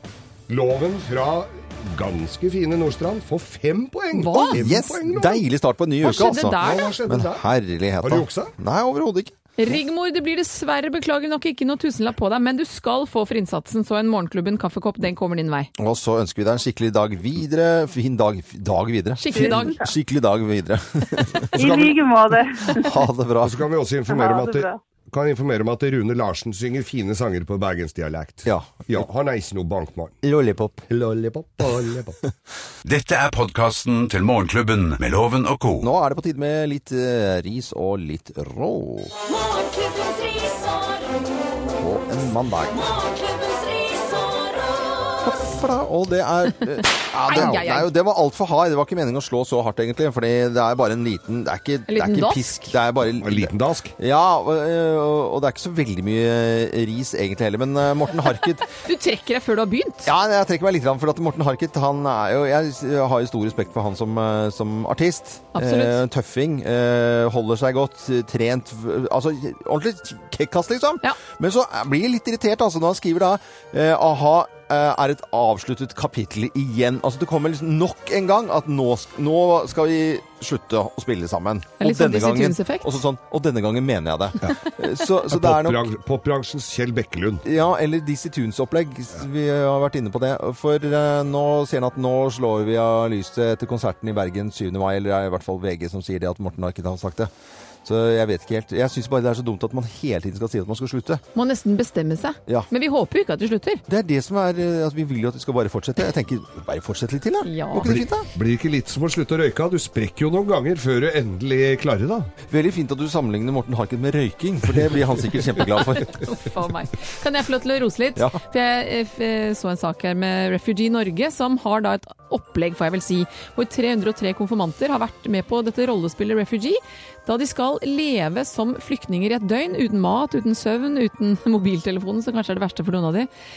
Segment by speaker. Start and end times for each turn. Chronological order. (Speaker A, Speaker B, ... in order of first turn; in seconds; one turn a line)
Speaker A: 0.5-5.4
Speaker B: 4.1-4.6
Speaker C: 4.5-9.3
Speaker B: 6.0-6.9
Speaker A: 6.5-7.4
Speaker A: 8.0-8.5
Speaker B: 9.6-15.7
Speaker C: 15.8-21.7
Speaker B: 19.2-19.8
Speaker D: 19.3-19.9
Speaker D: 21.6-22.9
Speaker A: 21.6-21.9
Speaker C: 22.7-23.6
Speaker A: 23.4-30.2
Speaker D: 24.1-24.8
Speaker C: 28.4-29.0
Speaker C: 30.2-30.8
Speaker A: 30.9-32.2
Speaker E: 32.8-35.9
Speaker C: 35.8-39.1
Speaker F: 39.3-41.5
Speaker C: 41.8-42.8
Speaker F: 42.7-45.3
Speaker C: 45.2-58.7
Speaker B: 47.2-47.9
Speaker B: 51.9-52.7
Speaker A: 53.2-53.9
Speaker B: 58.7-60.1
Speaker C: 60.0-85.9
Speaker B: 65.5-66.0
Speaker B: 81.8-82.9
Speaker A: 85.3-87.4
Speaker C: 87.4-97.3
Speaker C: 97.8-101.2
Speaker B: 101.3-103.8
Speaker C: 103.9-108.3
Speaker B: 107.4-107.9
Speaker A: 107.8-112.3
Speaker C: 112.5-116.2
Speaker B: 116.0-133.3